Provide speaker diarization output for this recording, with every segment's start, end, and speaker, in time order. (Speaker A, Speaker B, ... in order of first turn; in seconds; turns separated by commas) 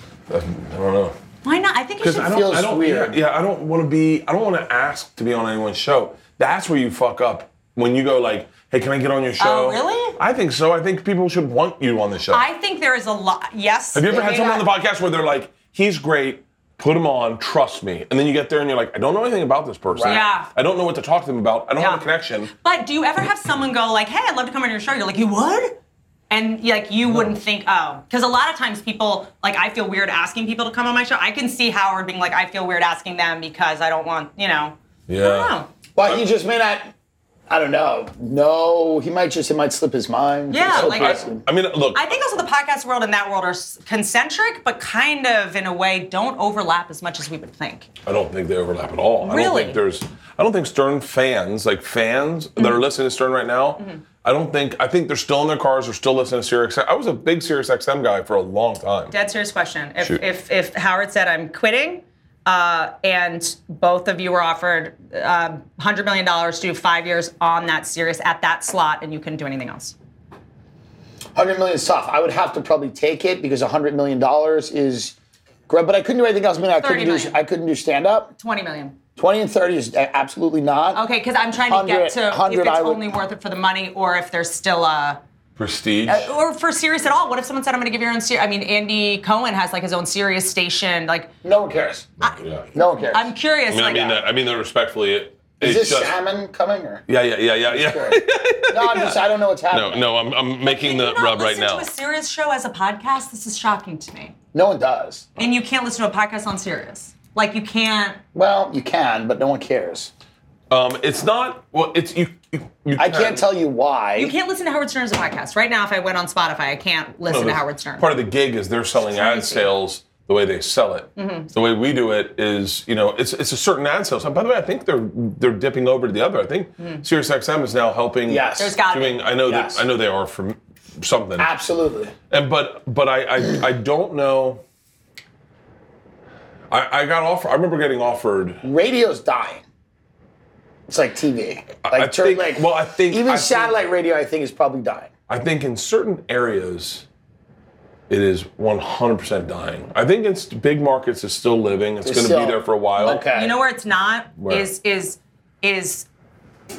Speaker A: 0.3-1.1, Speaker B: 1.4-2.5, Speaker A: 2.0-12.4, Speaker C: 2.1-3.2, Speaker B: 9.4-10.2, Speaker B: 12.3-14.2, Speaker A: 13.9-22.5, Speaker C: 14.1-14.7, Speaker C: 19.9-20.2, Speaker B: 20.0-20.5, Speaker B: 21.8-25.8, Speaker B: 26.3-35.7, Speaker A: 35.1-36.2, Speaker C: 36.0-36.9, Speaker C: 37.5-41.4, Speaker B: 40.5-41.2, Speaker A: 40.7-42.0, Speaker B: 41.9-47.9, Speaker A: 48.0-59.1, Speaker B: 49.2-49.8, Speaker B: 59.1-70.0, Speaker C: 71.3-75.2, Speaker C: 75.7-78.3, Speaker B: 76.8-77.4, Speaker B: 78.4-79.0, Speaker C: 79.2-81.0, Speaker B: 80.9-85.2, Speaker C: 81.7-83.0, Speaker A: 85.6-86.3, Speaker B: 86.1-91.3, Speaker C: 91.4-92.1, Speaker A: 92.2-92.7, Speaker B: 92.2-94.2, Speaker C: 92.7-93.3, Speaker A: 93.7-96.2, Speaker C: 95.6-97.0, Speaker A: 97.1-101.9, Speaker C: 97.7-100.1, Speaker B: 100.6-104.3, Speaker C: 104.5-105.3, Speaker B: 105.4-108.2, Speaker C: 108.3-110.1, Speaker A: 110.7-113.5, Speaker C: 113.0-114.3, Speaker B: 114.2-118.1, Speaker A: 117.3-131.5, Speaker B: 119.1-119.7, Speaker B: 121.2-121.5, Speaker C: 128.3-128.8, Speaker B: 128.6-129.2, Speaker C: 129.5-129.8, Speaker C: 131.4-132.1, Speaker A: 132.3-134.6, Speaker A: 136.7-138.6, Speaker C: 138.6-139.6, Speaker C: 140.9-145.1, Speaker A: 141.8-143.8, Speaker A: 145.3-147.1, Speaker A: 148.1-153.2, Speaker C: 152.0-153.6, Speaker B: 153.1-156.1, Speaker A: 154.4-154.7